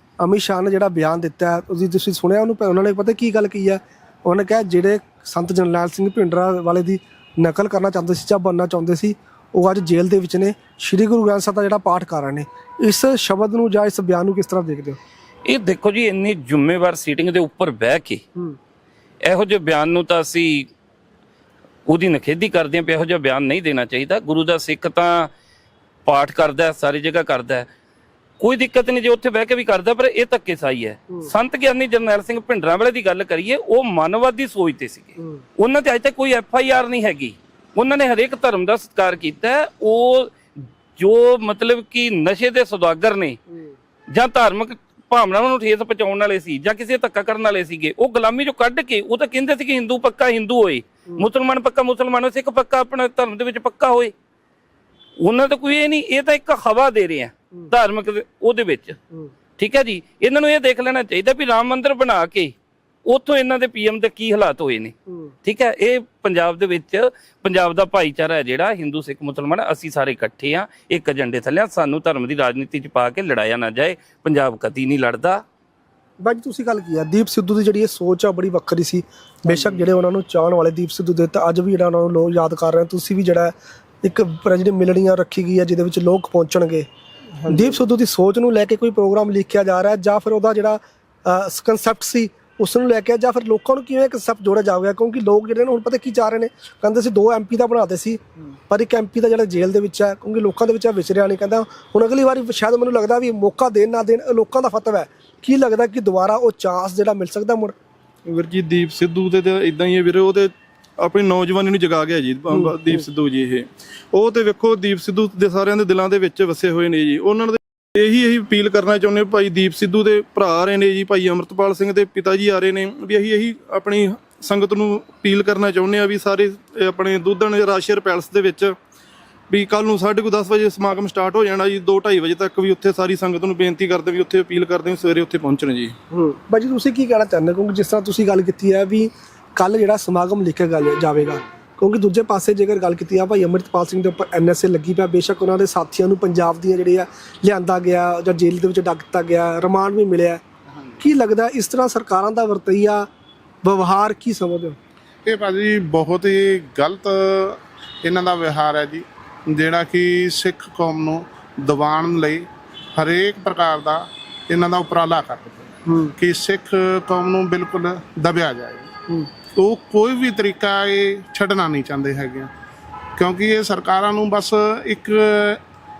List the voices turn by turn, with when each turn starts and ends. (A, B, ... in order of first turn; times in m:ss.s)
0:00.2-0:15.0 A
0:15.4-0:18.2 B
0:19.2-0:20.7 B
0:21.9-0:25.3 B
0:26.1-0:27.7 B
0:28.4-0:40.4 B
0:41.0-0:43.4 B
0:44.1-0:54.1 B
0:55.2-0:59.0 B
0:59.6-1:02.6 B
1:03.1-1:15.4 B
1:16.2-1:26.9 A
1:27.5-1:47.8 A
1:48.3-2:08.8 C
2:09.5-2:16.0 C
2:16.1-2:30.4 A
2:31.0-2:33.1 A
2:33.6-2:34.8 A
2:35.2-2:48.9 D
2:45.9-2:46.1 A
2:49.6-2:52.5 D
2:53.2-2:55.6 D